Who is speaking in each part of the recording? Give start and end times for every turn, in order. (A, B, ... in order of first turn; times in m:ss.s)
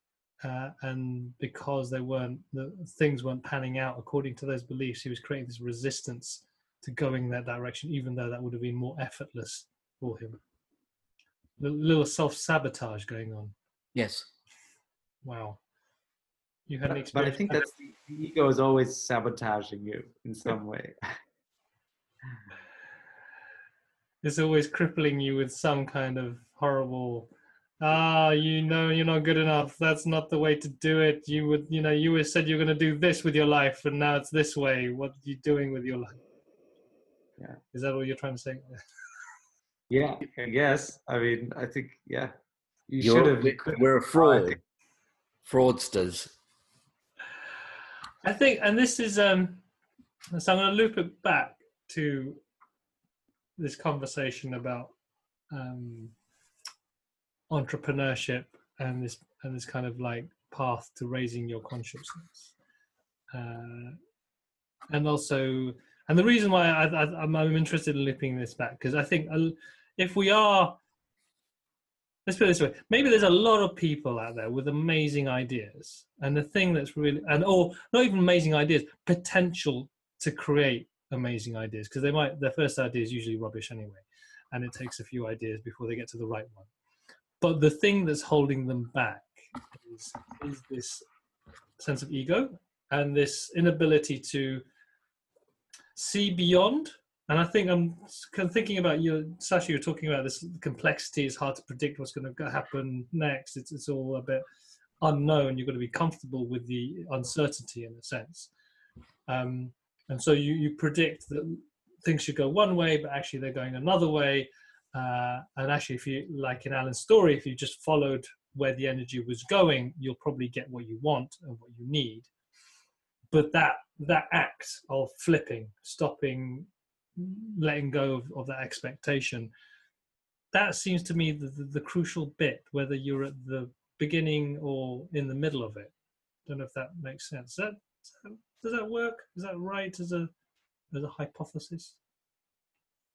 0:00.4-0:10.4 A
0:11.6-0:13.5 A
0:14.0-0:14.3 B
0:15.2-0:15.6 A
0:16.7-0:17.6 A
0:17.1-0:21.1 C
0:24.2-0:36.2 A
0:37.7-0:38.8 A
0:39.9-0:42.3 C
0:42.9-0:44.6 C
0:43.0-0:44.6 B
0:45.5-0:46.3 B
0:48.2-0:49.6 A
0:50.3-0:52.4 A
0:53.6-0:54.9 A
0:55.5-0:56.2 A
0:57.5-1:02.5 A
1:03.3-1:04.0 A
1:04.9-1:10.8 A
1:12.3-1:26.7 A
1:27.4-1:31.0 A
1:31.8-1:34.6 A
1:36.0-1:44.4 A
1:45.0-1:48.5 A
1:49.3-2:02.3 A
2:03.3-2:09.5 A
2:10.5-2:15.9 A
2:16.5-2:20.3 A
2:20.9-2:22.0 A